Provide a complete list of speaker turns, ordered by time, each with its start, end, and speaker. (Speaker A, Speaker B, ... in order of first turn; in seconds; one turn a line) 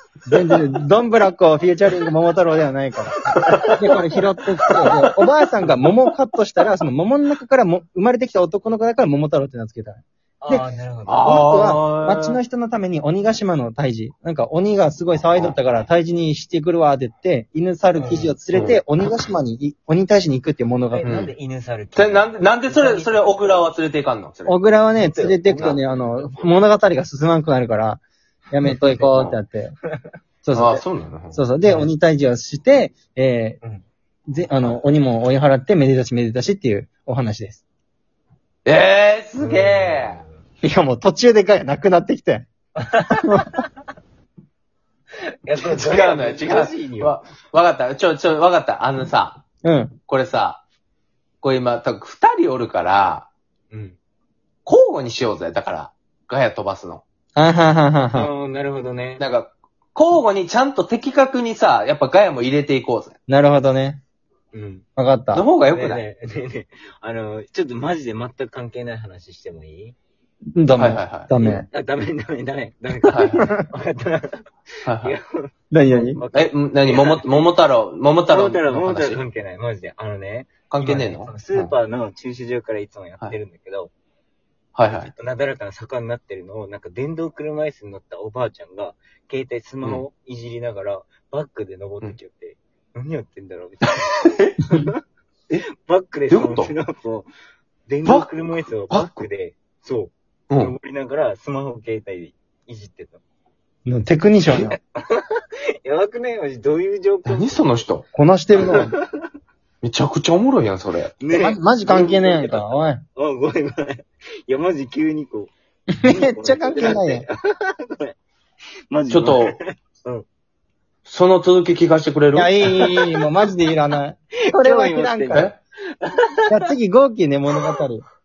Speaker A: 0.2-10.7
Speaker B: 10.4-11.4
Speaker C: 11.1-12.4
Speaker A: 11.2-21.1
Speaker B: 18.0-18.4
Speaker C: 18.5-18.8
Speaker B: 20.9-23.7
Speaker C: 21.0-21.3
Speaker C: 21.9-24.6
Speaker A: 24.4-28.0
Speaker B: 24.9-26.5
Speaker C: 25.5-25.8
Speaker A: 28.5-29.7
Speaker B: 28.6-29.3
Speaker A: 30.4-30.8
Speaker C: 30.5-31.4
Speaker A: 31.3-33.6
Speaker B: 31.6-31.9
Speaker A: 34.3-37.6
Speaker C: 38.6-40.2
Speaker B: 39.4-40.3
Speaker A: 40.6-42.5
Speaker B: 42.8-43.5
Speaker A: 43.2-43.5
Speaker B: 45.4-47.2
Speaker C: 45.6-49.4
Speaker A: 49.6-50.0
Speaker C: 50.1-50.6
Speaker C: 51.4-53.3
Speaker B: 53.7-54.0
Speaker C: 54.6-57.0
Speaker A: 57.4-58.3
Speaker B: 58.1-59.2
Speaker C: 59.2-63.1
Speaker A: 63.3-64.0
Speaker B: 64.5-64.8
Speaker A: 65.0-65.4
Speaker C: 65.3-66.0
Speaker B: 65.7-69.9
Speaker A: 70.5-71.7
Speaker C: 70.7-71.3
Speaker B: 71.4-77.5
Speaker C: 73.1-73.5
Speaker A: 73.4-73.6
Speaker C: 74.8-75.2
Speaker A: 75.7-76.2
Speaker C: 76.3-79.2
Speaker B: 78.2-83.9
Speaker C: 80.7-81.7
Speaker C: 84.7-85.1
Speaker B: 84.9-95.0
Speaker C: 94.1-94.5
Speaker B: 95.8-97.3
Speaker C: 96.3-96.7
Speaker B: 97.9-103.2
Speaker C: 98.0-98.3
Speaker C: 98.9-99.1
Speaker C: 100.5-100.7
Speaker A: 103.8-104.8
Speaker B: 104.6-105.3
Speaker B: 105.8-107.6
Speaker C: 107.2-108.0
Speaker A: 108.1-108.9
Speaker B: 108.6-109.2
Speaker C: 109.8-111.1
Speaker B: 111.2-115.5
Speaker A: 111.3-113.0
Speaker A: 115.9-117.2
Speaker B: 116.0-118.1
Speaker B: 118.9-120.2
Speaker C: 119.1-119.6
Speaker C: 121.0-122.5
Speaker A: 122.3-125.5
Speaker B: 122.6-123.3
Speaker B: 124.4-126.7
Speaker A: 126.5-128.0